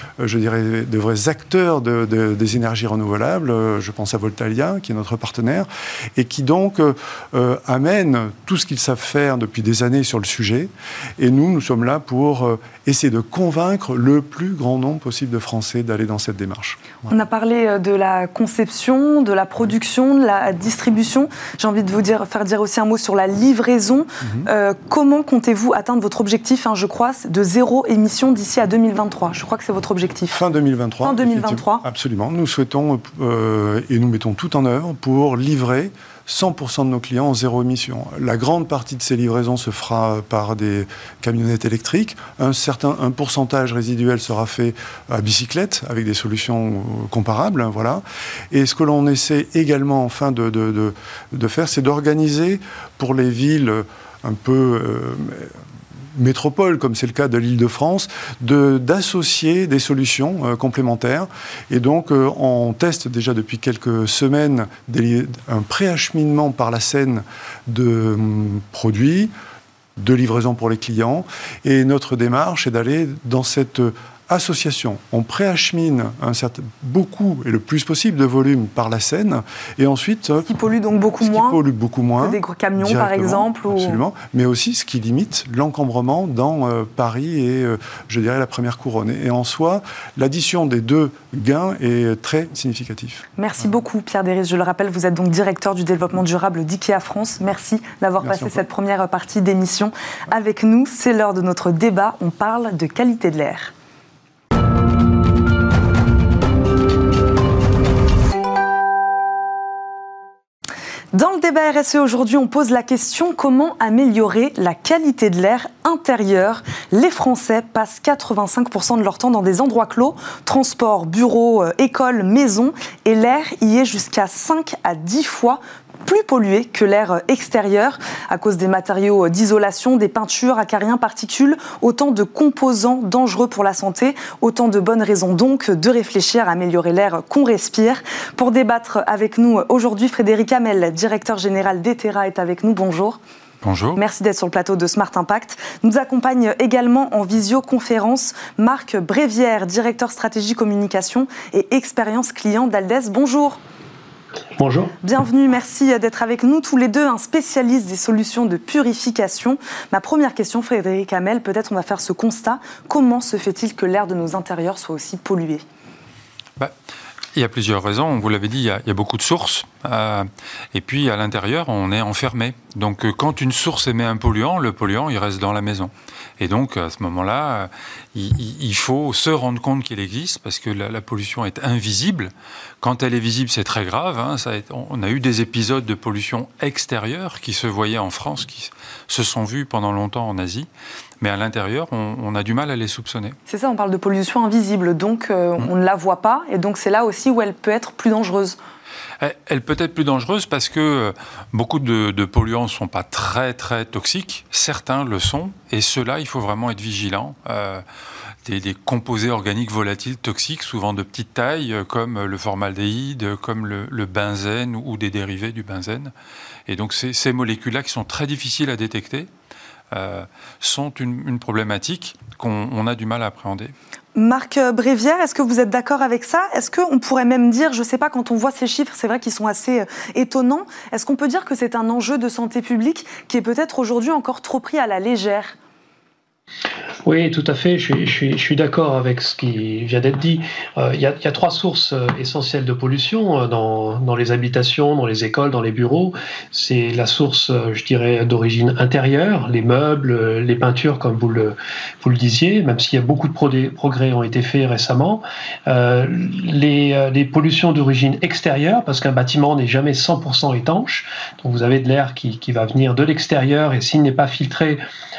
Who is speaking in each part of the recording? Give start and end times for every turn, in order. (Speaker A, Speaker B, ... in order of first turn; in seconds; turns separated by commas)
Speaker A: 0.2-17.1, Speaker B: 17.1-30.4, Speaker A: 24.2-24.5, Speaker A: 30.3-55.5, Speaker B: 31.0-31.8, Speaker A: 56.1-69.3, Speaker A: 70.0-80.5, Speaker B: 80.5-81.6, Speaker A: 81.2-93.3, Speaker B: 82.2-84.0, Speaker B: 93.4-103.7, Speaker A: 98.2-98.7, Speaker B: 111.1-143.2, Speaker C: 143.6-144.0, Speaker B: 144.0-153.6, Speaker D: 154.6-154.9, Speaker B: 155.0-165.6, Speaker C: 167.3-190.7, Speaker C: 191.2-193.4, Speaker B: 193.5-198.6, Speaker C: 199.2-207.8, Speaker C: 208.4-216.1, Speaker C: 216.7-219.3, Speaker C: 219.9-223.7, Speaker B: 224.2-235.6, Speaker D: 237.1-264.8